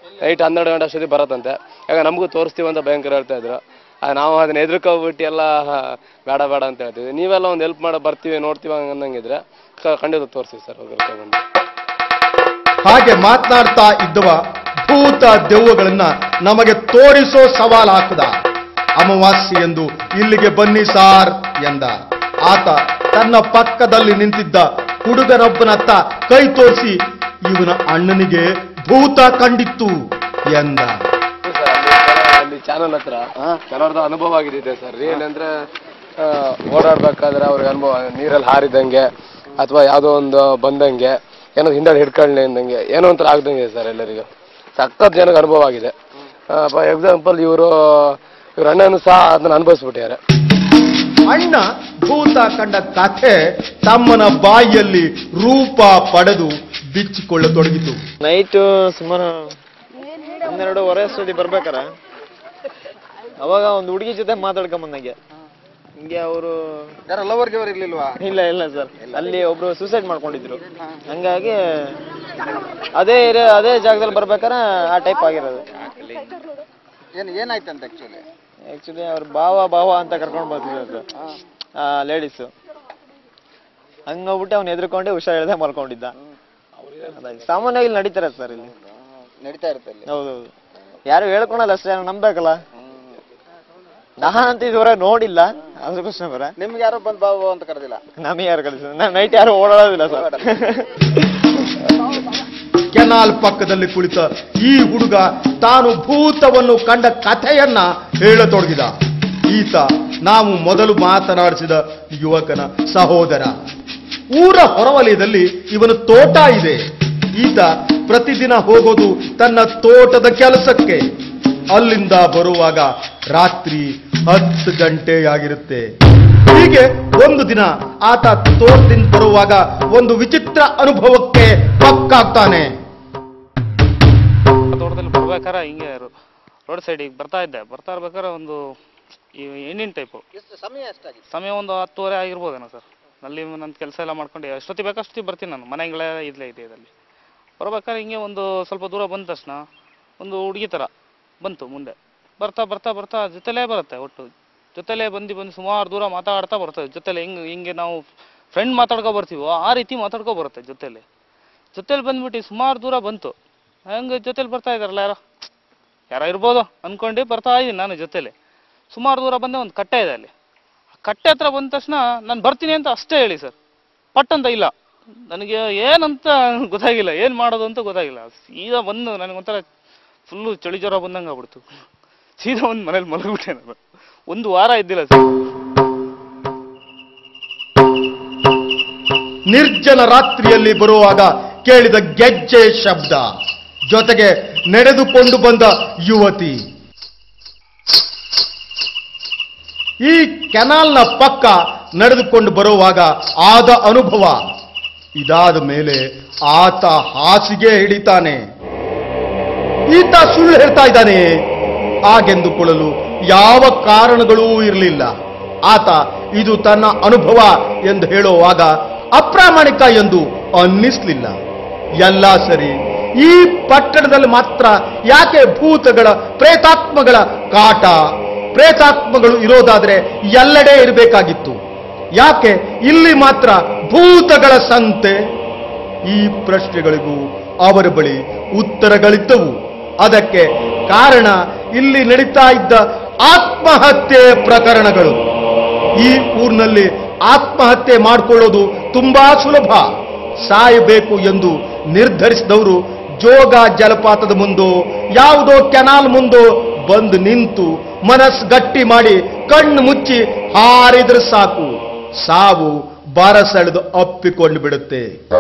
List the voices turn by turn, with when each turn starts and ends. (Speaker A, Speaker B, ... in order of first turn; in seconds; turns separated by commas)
Speaker A: 0.2-11.4, Speaker B: 12.8-18.3, Speaker B: 19.0-31.0, Speaker A: 31.4-35.5, Speaker A: 36.2-45.9, Speaker A: 46.5-50.2, Speaker B: 51.3-58.0, Speaker C: 58.2-59.5, Speaker C: 60.4-61.9, Speaker C: 63.4-65.2, Speaker C: 66.0-66.6, Speaker D: 67.1-68.2, Speaker C: 68.2-71.6, Speaker C: 73.0-75.7, Speaker D: 77.2-78.2, Speaker C: 78.7-81.1, Speaker C: 81.8-82.5, Speaker C: 84.1-86.1, Speaker C: 87.1-88.7, Speaker D: 89.4-90.1, Speaker C: 90.1-90.5, Speaker C: 91.1-92.6, Speaker C: 94.2-96.5, Speaker D: 96.6-98.0, Speaker C: 98.2-101.5, Speaker D: 100.2-100.4, Speaker B: 103.0-109.0, Speaker B: 109.5-113.5, Speaker B: 114.3-116.8, Speaker B: 117.4-121.1, Speaker B: 121.7-125.9, Speaker B: 126.5-132.7, Speaker E: 134.7-136.1, Speaker E: 136.7-138.6, Speaker E: 139.3-140.2, Speaker D: 140.3-141.2, Speaker E: 141.3-146.9, Speaker E: 147.6-149.6, Speaker E: 150.2-150.9, Speaker E: 151.4-158.0, Speaker E: 158.5-161.1, Speaker E: 161.7-163.3, Speaker E: 163.9-165.2, Speaker E: 166.1-168.3, Speaker E: 168.9-170.3, Speaker E: 171.0-173.5, Speaker E: 174.2-174.7, Speaker E: 175.3-179.6, Speaker E: 180.3-181.8, Speaker E: 182.4-183.8, Speaker E: 184.3-185.3, Speaker B: 189.5-193.3, Speaker B: 193.9-196.6, Speaker B: 200.0-204.4, Speaker B: 205.2-208.4, Speaker B: 209.9-211.3, Speaker B: 212.1-215.1, Speaker B: 215.7-221.4, Speaker B: 222.0-231.6, Speaker B: 232.2-235.2, Speaker B: 236.1-245.2, Speaker B: 246.0-249.9, Speaker B: 250.4-261.7, Speaker B: 262.2-265.1